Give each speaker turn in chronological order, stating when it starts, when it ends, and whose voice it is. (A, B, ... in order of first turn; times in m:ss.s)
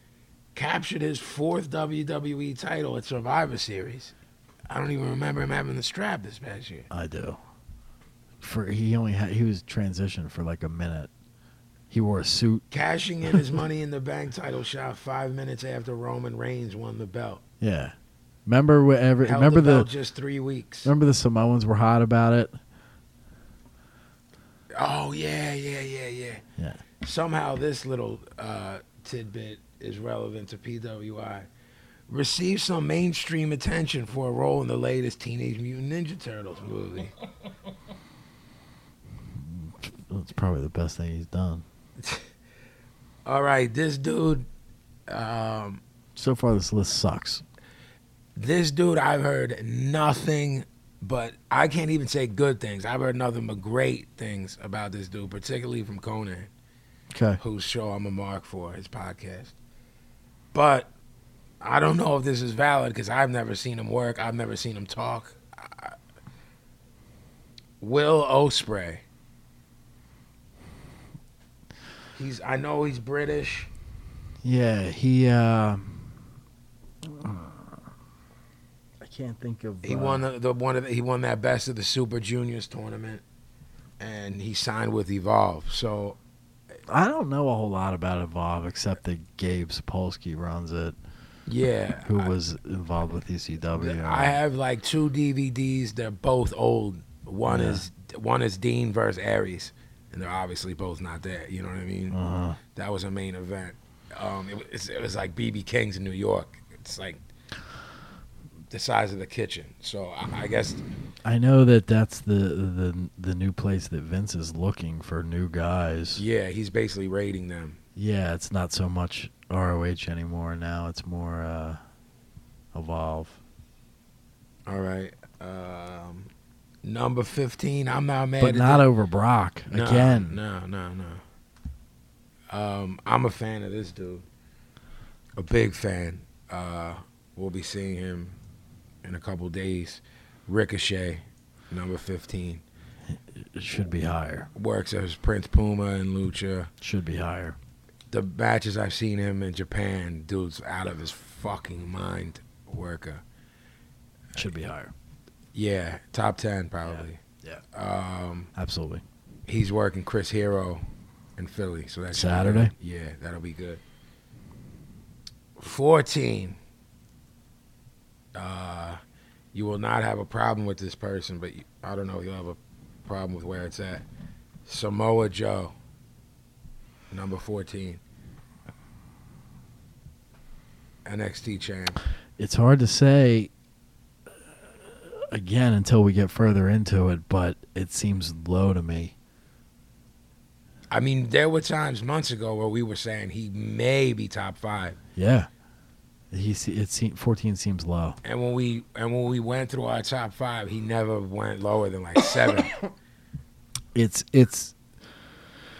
0:00.6-0:04.1 A
0:04.7-0:06.9 A
0:06.9-0:07.4 B
0:08.4-0:11.1 B
0:11.9-0:12.6 B
0:12.7-0:17.4 A
0:17.6-0:18.0 B
0:18.5-0:19.9 B
0:19.2-0:20.9 A
0:20.8-0:22.6 B
0:24.7-0:26.4 A
0:27.0-0:31.5 A
0:32.1-0:37.1 A
0:39.3-0:41.6 B
0:42.0-0:42.3 A
0:43.2-0:44.5 A
0:45.1-0:45.8 A
0:46.2-0:47.4 B
0:48.4-0:56.5 A
0:57.1-0:57.4 B
0:57.4-0:59.5 A
1:00.5-1:00.9 A
1:01.6-1:06.0 A
1:07.8-1:09.0 A
1:12.2-1:13.7 A
1:14.4-1:16.1 B
1:17.0-1:17.9 B
1:19.0-1:20.3 B
1:19.8-1:23.2 A
1:24.0-1:26.2 A
1:26.9-1:31.0 B
1:31.5-1:32.3 A
1:32.0-1:34.4 B
1:33.8-1:42.2 A
1:37.5-1:37.8 B
1:42.1-1:42.6 B
1:42.7-1:47.2 A
1:48.7-1:50.8 A
1:51.2-1:56.2 B
1:56.2-1:57.8 A
1:58.0-2:01.8 B
2:02.7-2:03.4 B
2:04.7-2:06.3 A
2:06.8-2:08.8 A
2:08.4-2:10.4 B
2:09.7-2:11.2 A
2:12.5-2:14.2 A
2:15.4-2:18.4 A
2:19.0-2:22.6 A
2:23.1-2:24.5 B
2:24.6-2:26.7 A
2:26.8-2:27.6 B
2:28.1-2:33.2 A
2:34.4-2:34.9 B
2:35.5-2:37.2 A
2:36.8-2:37.6 B
2:37.7-2:38.5 A
2:38.6-2:39.0 B
2:39.5-2:40.8 A
2:41.4-2:43.8 A
2:42.1-2:42.7 B
2:45.6-2:46.6 A
2:48.3-2:49.0 A
2:49.5-2:54.1 A
2:54.7-2:55.7 A
2:57.1-2:58.0 A
3:01.0-3:02.0 A
3:02.4-3:03.5 B
3:04.8-3:09.1 B
3:10.9-3:15.0 A
3:15.2-3:15.5 B
3:16.3-3:18.2 B
3:18.2-3:22.8 A
3:23.9-3:24.8 B